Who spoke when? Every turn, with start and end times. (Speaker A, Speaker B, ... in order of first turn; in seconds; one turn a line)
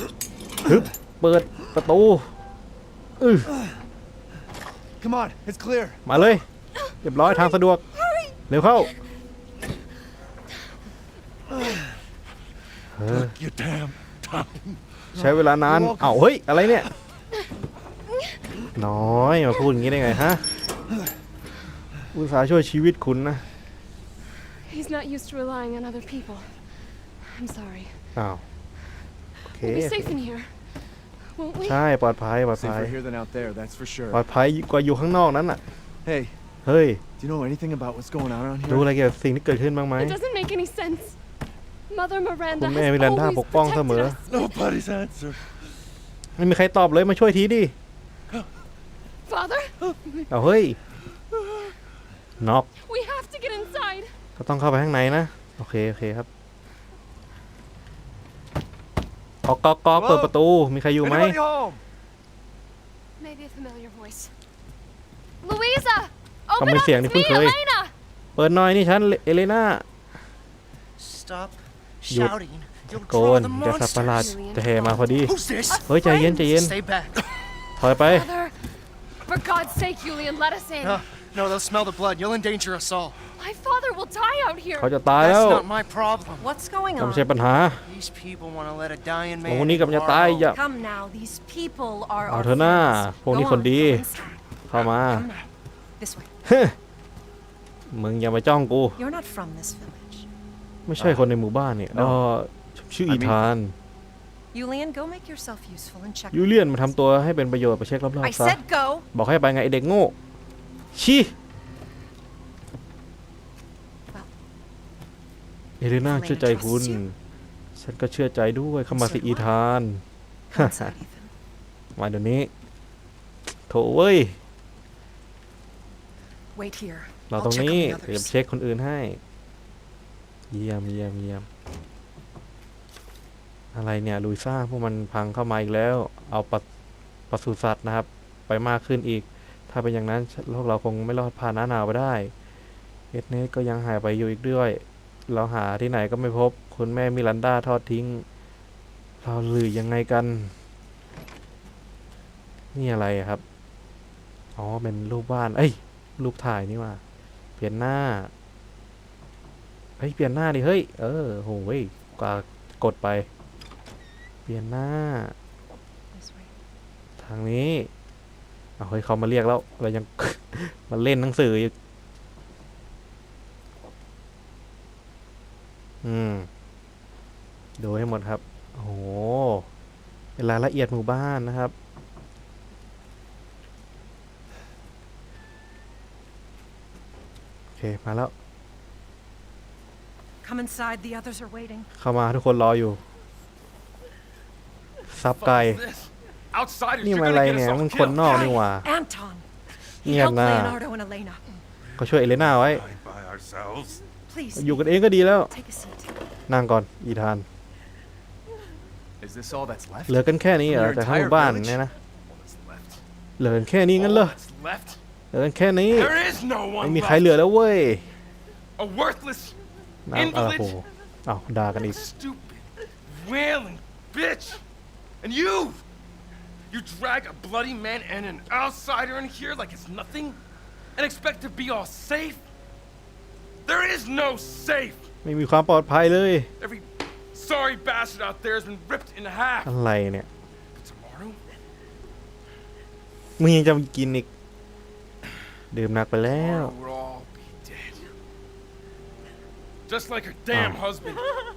Speaker A: 0.6-2.3
Speaker A: 3.2-3.5
Speaker B: 5.0-6.0
Speaker A: 6.0-6.4
Speaker C: 6.8-8.4
Speaker A: 7.0-7.8
Speaker A: 8.5-8.9
Speaker A: 12.9-13.3
Speaker B: 13.1-16.2
Speaker A: 15.1-16.9
Speaker C: 18.1-18.4
Speaker A: 18.8-20.4
Speaker A: 22.1-23.4
Speaker C: 24.6-28.0
Speaker A: 28.1-28.4
Speaker A: 29.5-30.1
Speaker C: 29.5-31.8
Speaker A: 31.6-32.9
Speaker B: 32.5-34.2
Speaker A: 34.1-35.6
Speaker B: 36.0-36.4
Speaker A: 36.6-37.0
Speaker B: 37.2-38.9
Speaker A: 38.7-40.2
Speaker C: 40.0-41.2
Speaker C: 41.9-44.6
Speaker A: 42.5-44.2
Speaker D: 44.3-45.4
Speaker A: 46.4-47.7
Speaker C: 49.2-50.1
Speaker A: 50.3-50.8
Speaker A: 52.4-52.7
Speaker C: 52.8-54.1
Speaker A: 54.4-56.3
Speaker A: 59.4-61.4
Speaker B: 59.9-60.3
Speaker B: 61.0-61.8
Speaker C: 63.2-64.3
Speaker C: 65.4-67.9
Speaker A: 66.6-67.5
Speaker A: 68.3-69.8
Speaker E: 71.0-74.3
Speaker A: 72.1-75.3
Speaker C: 74.1-76.6
Speaker E: 75.3-77.2
Speaker A: 75.9-76.7
Speaker A: 77.8-78.3
Speaker C: 78.0-78.6
Speaker C: 79.2-81.0
Speaker E: 80.8-83.2
Speaker C: 83.4-85.0
Speaker A: 84.8-85.7
Speaker E: 85.1-86.5
Speaker F: 86.4-87.3
Speaker A: 87.0-87.8
Speaker E: 87.8-90.5
Speaker A: 89.4-90.6
Speaker F: 90.5-96.3
Speaker A: 92.2-94.0
Speaker A: 94.7-95.2
Speaker A: 96.4-96.7
Speaker A: 97.9-99.0
Speaker F: 99.0-100.3
Speaker A: 100.8-103.7
Speaker B: 101.0-101.2
Speaker B: 101.9-102.2
Speaker B: 103.1-103.4
Speaker F: 104.5-106.6
Speaker A: 106.3-108.6
Speaker F: 108.2-109.0
Speaker A: 109.1-110.1
Speaker A: 110.9-111.3
Speaker A: 115.8-117.1
Speaker F: 116.0-117.0
Speaker A: 117.8-120.0
Speaker F: 118.9-119.5
Speaker F: 120.5-121.3
Speaker A: 120.5-120.9
Speaker A: 122.0-122.5
Speaker A: 123.7-124.4
Speaker F: 126.5-128.4
Speaker A: 127.3-129.2
Speaker A: 130.5-131.5
Speaker A: 133.7-136.6
Speaker A: 137.3-142.3
Speaker A: 143.1-148.2
Speaker A: 149.2-150.5
Speaker A: 152.7-153.4
Speaker A: 154.6-157.0
Speaker A: 157.6-158.3
Speaker A: 160.0-163.3
Speaker A: 164.5-165.3
Speaker F: 166.1-166.5
Speaker A: 167.2-167.9
Speaker A: 168.8-171.7
Speaker A: 176.0-176.5
Speaker A: 177.8-179.7
Speaker A: 180.4-181.7
Speaker A: 187.8-188.3
Speaker F: 190.4-191.9
Speaker A: 192.0-193.0
Speaker A: 195.1-195.8
Speaker D: 195.3-198.6
Speaker A: 197.0-198.9
Speaker F: 198.2-199.5
Speaker F: 200.0-201.4
Speaker A: 200.0-200.8
Speaker A: 202.0-202.8
Speaker D: 202.7-204.0
Speaker F: 204.3-206.2
Speaker A: 204.6-205.5
Speaker A: 206.5-207.4
Speaker B: 209.2-211.8
Speaker A: 210.1-211.9
Speaker D: 212.3-213.0
Speaker A: 213.4-214.3
Speaker D: 213.9-215.0
Speaker A: 215.3-216.2
Speaker D: 215.9-217.4
Speaker A: 216.8-218.1
Speaker D: 218.8-219.6
Speaker A: 220.1-222.1
Speaker D: 220.1-220.8
Speaker D: 221.8-224.6
Speaker D: 225.2-225.8
Speaker D: 226.7-230.4
Speaker D: 230.9-232.4
Speaker D: 233.6-235.1
Speaker A: 235.2-236.5
Speaker D: 236.6-239.7
Speaker A: 239.6-240.3
Speaker D: 240.8-241.4
Speaker A: 243.4-244.3
Speaker A: 245.7-246.7
Speaker D: 246.3-248.1
Speaker D: 249.9-251.3
Speaker A: 250.5-250.8